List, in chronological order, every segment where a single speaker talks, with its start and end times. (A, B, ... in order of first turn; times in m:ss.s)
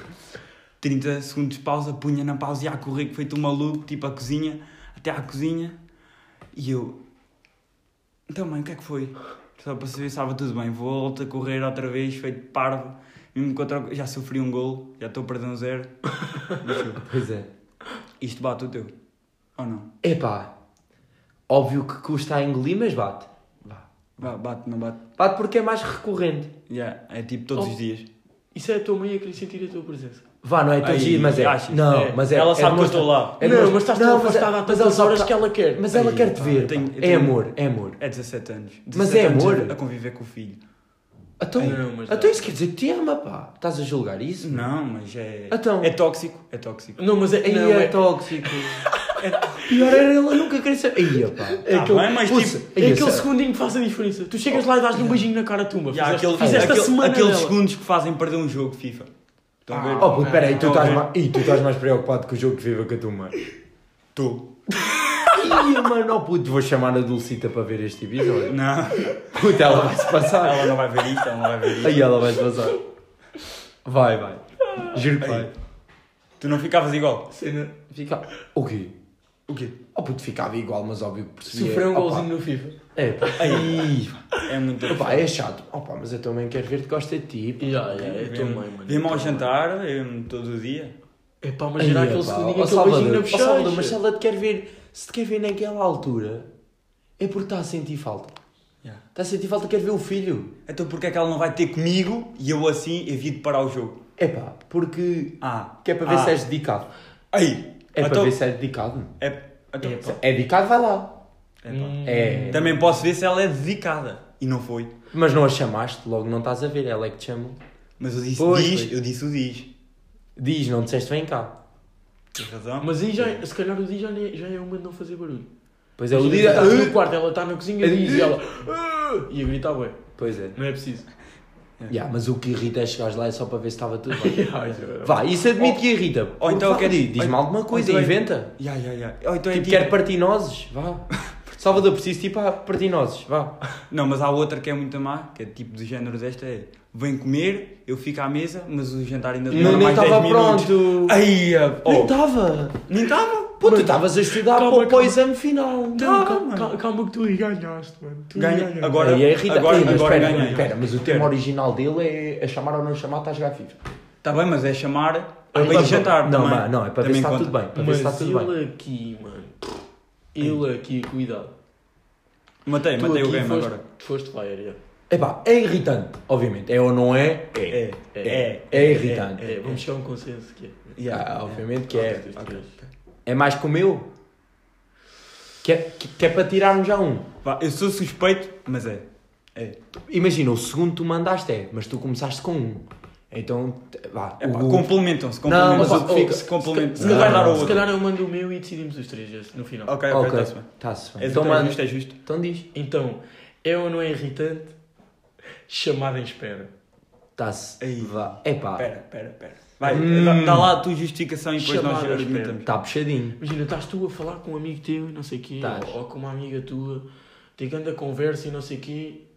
0:00.8-0:05.8 A
0:06.5-0:07.0 A
0:08.3-0:17.0 A
0:17.0-0:17.5 B
0:18.2-0:18.9 A
0:19.6-0:19.9 A
0:20.0-0:20.5 B
0:21.5-0:24.3 B
0:24.2-0:25.0 A
0:25.2-0:26.5 B
0:26.7-0:28.1 A
0:28.5-0:30.2 C
0:30.4-0:38.0 B
0:30.8-0:33.4 A
0:31.9-0:32.2 C
0:33.4-0:36.6 C
0:36.5-0:40.6 A
0:38.9-0:39.8 B
0:41.4-0:44.6 B
0:41.6-0:42.5 C
0:44.4-0:47.0 A
0:45.5-0:45.9 B
0:47.0-0:48.8 C
0:47.4-0:48.9 B
0:49.2-0:49.7 A
0:49.6-0:51.6 B
0:51.2-0:57.6 C
0:51.7-0:52.6 A
0:52.2-0:53.3 B
0:55.0-0:55.2 A
0:55.9-0:59.1 A
0:56.4-0:56.8 B
0:59.6-1:01.1 A
0:59.7-1:01.0 C
0:59.9-1:03.4 B
1:04.1-1:04.5 A
1:04.8-1:05.4 C
1:05.3-1:08.6 B
1:08.4-1:09.2 A
1:09.3-1:10.8 B
1:09.8-1:12.1 A
1:11.8-1:12.8 B
1:13.8-1:15.5 B
1:15.2-1:15.5 A
1:16.4-1:17.3 A
1:17.3-1:17.7 C
1:17.9-1:18.9 B
1:19.5-1:19.8 A
1:19.9-1:22.3 B
1:21.4-1:22.8 C
1:22.9-1:24.3 B
1:23.4-1:23.8 A
1:24.4-1:25.2 A
1:24.9-1:27.9 B
1:27.6-1:29.5 C
1:27.8-1:30.9 A
1:31.4-1:34.0 C
1:31.8-1:36.5 B
1:37.2-1:38.3 B
1:39.1-1:40.5 B
1:40.7-1:43.9 A
1:44.2-1:46.9 B
1:45.4-1:46.4 A
1:47.3-1:48.3 A
1:48.0-1:49.1 B
1:49.2-1:50.0 A
1:49.8-1:50.2 C
1:50.0-1:51.1 B
1:51.6-1:52.0 A
1:51.7-1:53.0 C
1:52.0-1:52.7 B
1:52.5-1:54.9 A
1:55.1-1:57.6 B
1:58.0-1:59.7 A
1:58.4-1:58.9 B
2:00.4-2:01.5 B
2:02.3-2:02.9 A
2:02.8-2:05.5 C
2:06.0-2:07.0 B
2:06.1-2:10.0 C
2:07.8-2:08.4 B
2:10.2-2:10.6 B
2:10.5-2:11.1 C
2:11.9-2:14.4 B
2:14.1-2:15.8 C
2:15.0-2:18.5 B
2:16.4-2:20.0 A
2:19.5-2:23.6 B
2:23.9-2:32.2 A
2:29.5-2:30.0 C
2:29.5-2:31.2 B
2:31.8-2:32.8 B
2:32.9-2:33.6 A
2:33.6-2:36.4 B
2:33.6-2:35.2 C
2:35.9-2:40.8 C
2:36.0-2:36.7 A
2:38.3-2:41.3 A
2:39.0-2:43.8 B
2:44.2-2:47.6 A
2:45.5-2:46.1 C
2:45.5-2:48.5 B
2:47.7-2:49.8 C
2:50.3-2:51.5 C
2:52.6-2:53.8 A
2:52.9-2:54.8 C
2:55.1-2:57.8 B
2:57.7-2:59.8 A
2:58.1-3:01.0 C
2:58.7-2:59.8 B
3:01.0-3:02.9 A
3:01.1-3:02.3 B
3:01.9-3:02.7 C
3:03.2-3:04.1 B
3:05.6-3:07.2 B
3:07.4-3:09.8 A
3:10.1-3:17.8 B
3:14.4-3:17.8 A
3:15.7-3:19.9 C
3:19.8-3:22.1 A
3:20.1-3:22.6 B
3:21.3-3:21.7 C
3:22.7-3:24.7 C
3:25.7-3:26.7 C
3:27.4-3:28.9 B
3:27.8-3:32.7 A
3:29.8-3:30.8 B
3:31.6-3:32.6 C
3:32.6-3:33.4 B
3:33.4-3:39.2 C
3:35.6-3:36.0 B